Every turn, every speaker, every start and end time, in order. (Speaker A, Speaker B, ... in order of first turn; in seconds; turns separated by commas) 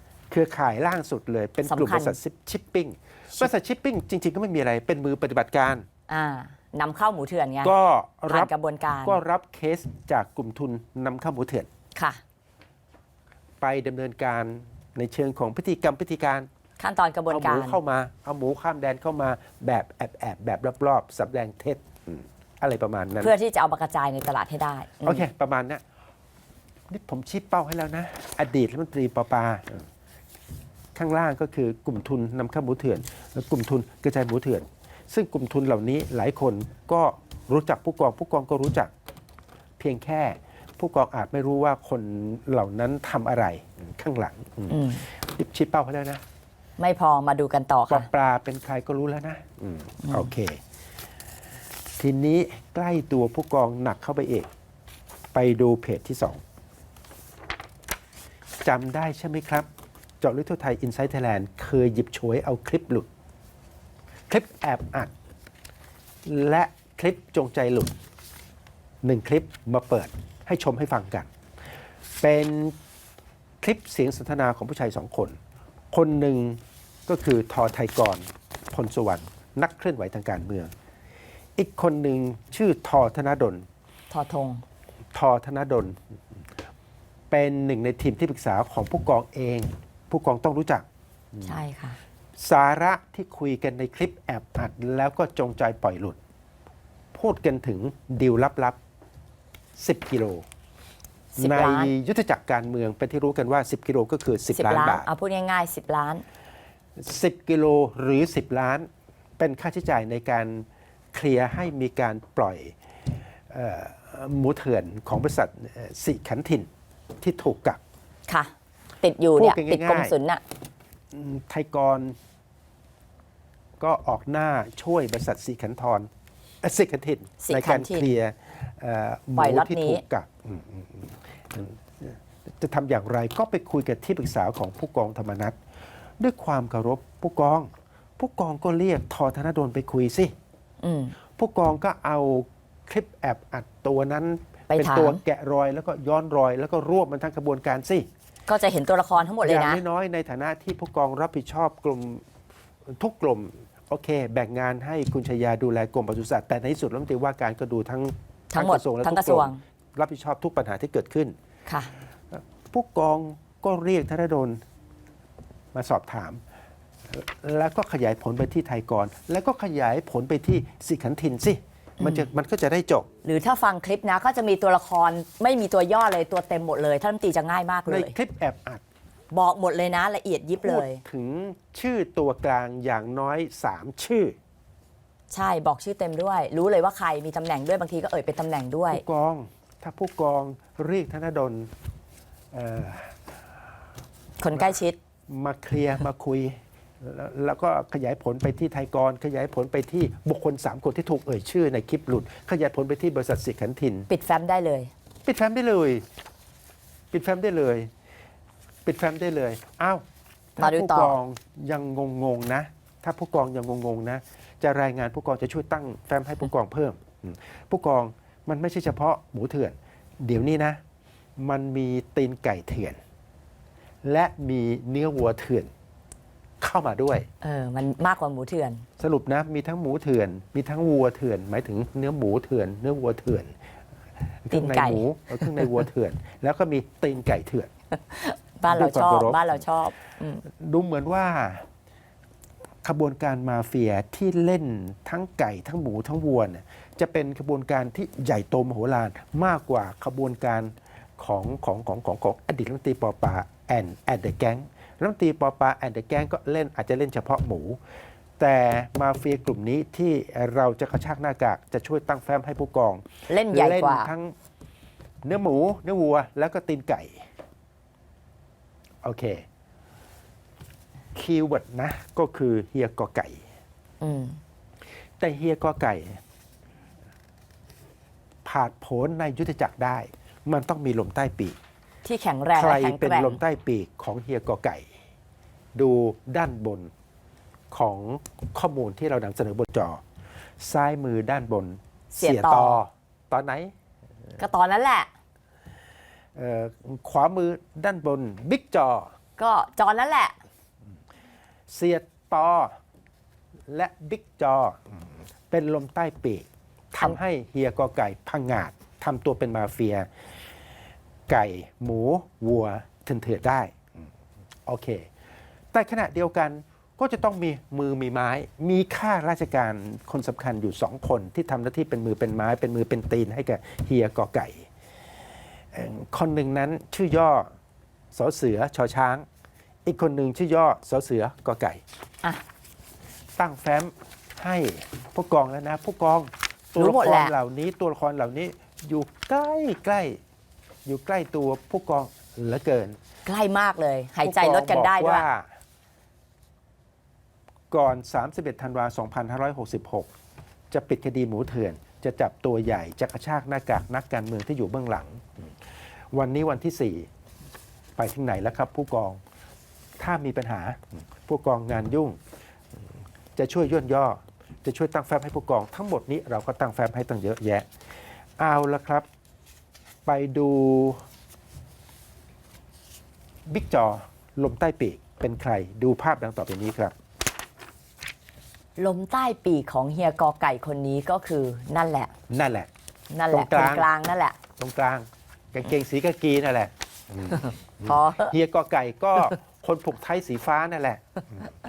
Speaker A: 0.3-5.9, Speaker B: 1.6-2.2, Speaker B: 6.1-7.7, Speaker A: 7.6-8.5, Speaker B: 8.3-9.2, Speaker A: 9.0-11.7, Speaker B: 11.9-12.2, Speaker A: 13.6-16.5, Speaker B: 16.8-17.8, Speaker A: 17.3-23.4, Speaker B: 23.2-25.2, Speaker A: 25.0-25.8, Speaker A: 26.9-29.9, Speaker A: 30.9-38.9, Speaker A: 39.8-46.2, Speaker B: 44.7-45.0, Speaker B: 46.8-48.1, Speaker A: 47.9-50.6, Speaker A: 52.0-54.5, Speaker A: 55.3-56.4, Speaker A: 58.6-59.7, Speaker A: 60.2-63.1, Speaker A: 64.3-65.1, Speaker A: 66.3-68.0, Speaker A: 69.0-71.3, Speaker A: 72.2-72.8, Speaker A: 73.6-75.4, Speaker A: 75.9-80.7, Speaker A: 81.6-83.7, Speaker B: 84.1-84.6, Speaker A: 85.1-86.0, Speaker A: 87.3-91.6, Speaker B: 91.4-92.0, Speaker A: 92.4-96.2, Speaker A: 97.1-98.8, Speaker A: 99.8-100.4, Speaker B: 101.3-101.9, Speaker A: 101.4-105.1, Speaker B: 104.5-106.2, Speaker A: 107.0-108.9, Speaker A: 109.4-112.8, Speaker A: 113.5-116.7, Speaker A: 117.2-117.8, Speaker B: 119.0-120.4, Speaker A: 119.3-120.2, Speaker A: 121.1-122.2, Speaker A: 123.8-126.1, Speaker A: 126.6-135.6, Speaker B: 127.4-128.1, Speaker B: 129.4-130.0, Speaker A: 136.2-140.3, Speaker B: 140.8-141.2, Speaker A: 141.4-148.1, Speaker B: 144.7-145.2, Speaker B: 148.5-149.8, Speaker A: 149.4-152.2, Speaker A: 153.0-161.3, Speaker B: 158.5-159.6, Speaker B: 161.7-161.9, Speaker A: 162.3-164.6, Speaker A: 165.7-166.4, Speaker A: 167.1-173.1, Speaker B: 172.0-172.3, Speaker B: 173.2-178.1, Speaker A: 177.9-178.8, Speaker B: 179.3-181.0, Speaker A: 180.6-184.3, Speaker B: 185.3-189.0, Speaker A: 188.9-191.7, Speaker A: 192.5-193.2, Speaker B: 194.4-195.0, Speaker A: 194.5-204.1, Speaker B: 204.1-204.9, Speaker A: 205.2-206.1, Speaker A: 207.1-207.9, Speaker A: 208.8-210.0, Speaker A: 210.6-220.8, Speaker B: 210.6-211.2, Speaker A: 221.4-223.0, Speaker A: 224.0-225.7, Speaker A: 226.6-227.3, Speaker B: 227.4-228.8, Speaker A: 229.0-233.5, Speaker A: 234.4-237.7, Speaker B: 234.5-235.8, Speaker B: 238.1-240.4, Speaker A: 238.7-239.7, Speaker A: 240.5-241.7, Speaker A: 242.8-257.8, Speaker A: 258.4-264.3, Speaker B: 263.3-264.1, Speaker A: 265.2-267.2, Speaker A: 269.0-269.4, Speaker A: 271.1-273.4, Speaker B: 274.0-274.4, Speaker A: 275.2-276.2, Speaker A: 278.4-281.6, Speaker B: 282.1-283.4, Speaker A: 282.5-284.9, Speaker A: 285.8-286.9, Speaker A: 287.7-290.0, Speaker A: 290.6-293.7, Speaker B: 292.1-292.8, Speaker B: 294.4-295.1, Speaker A: 296.4-299.1, Speaker B: 299.4-300.4, Speaker A: 301.7-302.8, Speaker A: 303.7-304.8, Speaker A: 305.5-310.1, Speaker A: 311.3-313.8, Speaker A: 314.7-315.1, Speaker A: 315.7-324.7, Speaker A: 325.7-327.5, Speaker A: 328.1-329.3, Speaker A: 329.9-331.8, Speaker A: 333.4-340.2, Speaker B: 336.8-337.3, Speaker A: 340.9-343.0, Speaker B: 343.3-345.2, Speaker A: 344.2-345.5, Speaker A: 347.7-350.1, Speaker A: 350.7-355.2, Speaker A: 356.1-357.1, Speaker A: 358.0-359.2, Speaker A: 360.0-362.2, Speaker A: 363.4-367.7, Speaker A: 368.4-369.1, Speaker A: 370.1-371.0, Speaker A: 373.5-376.9, Speaker B: 378.8-382.1, Speaker A: 382.3-382.7, Speaker B: 383.1-384.4, Speaker A: 383.3-383.9, Speaker A: 384.6-391.5, Speaker B: 387.9-388.3